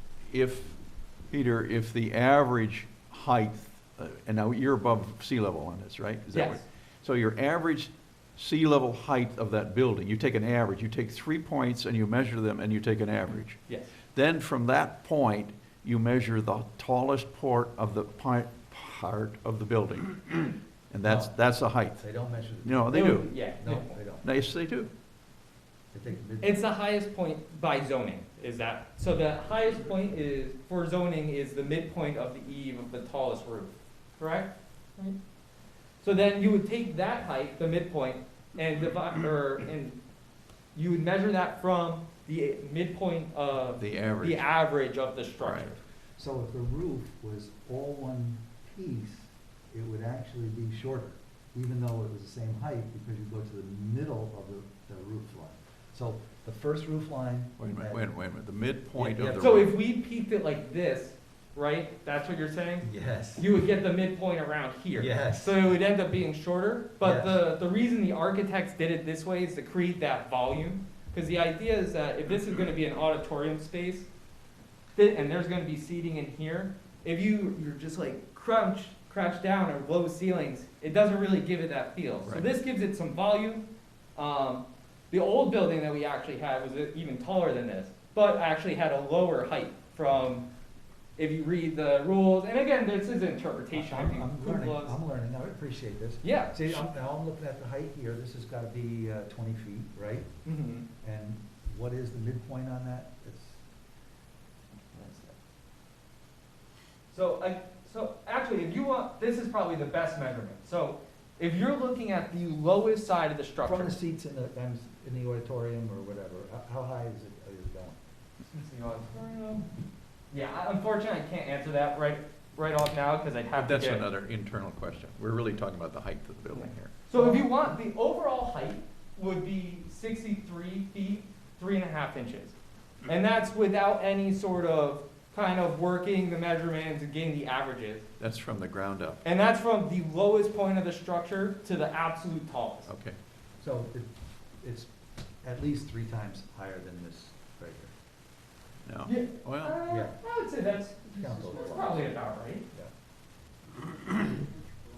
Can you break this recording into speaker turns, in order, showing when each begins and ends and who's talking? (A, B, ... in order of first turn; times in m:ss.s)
0:00.3-0:13.6 A
0:06.3-0:06.6 B
0:13.7-0:13.9 B
0:14.1-0:22.1 A
0:21.0-0:21.3 C
0:22.0-0:24.2 C
0:22.6-0:23.4 A
0:22.9-0:24.0 B
0:24.2-0:24.9 A
0:25.9-0:26.6 C
0:26.4-0:35.2 B
0:36.0-0:40.0 B
0:40.7-0:45.8 B
0:43.8-0:44.5 A
0:45.4-0:45.7 A
0:46.2-0:58.0 C
0:57.6-0:59.7 A
0:59.0-0:59.5 C
0:59.4-1:14.1 B
1:02.8-1:03.5 C
1:05.0-1:05.6 C
1:07.0-1:07.4 C
1:15.0-1:30.5 B
1:22.2-1:22.5 A
1:31.2-1:35.0 B
1:33.7-1:40.3 C
1:36.2-1:36.8 B
1:40.4-1:40.8 B
1:41.0-1:43.6 C
1:44.9-1:45.4 B
1:47.1-1:54.0 B
1:53.6-1:58.0 C
1:58.4-1:59.7 B
2:00.3-2:04.0 B
2:03.6-2:07.0 A
2:06.5-2:12.5 B
2:07.1-2:07.6 C
2:13.0-2:18.1 B
2:18.2-2:19.2 A
2:19.2-2:22.9 B
2:22.9-2:23.2 A
2:23.6-2:24.1 C
2:24.6-2:27.9 C
2:28.8-2:29.8 A
2:29.0-2:32.6 B
2:29.9-2:30.2 C
2:31.0-2:32.0 C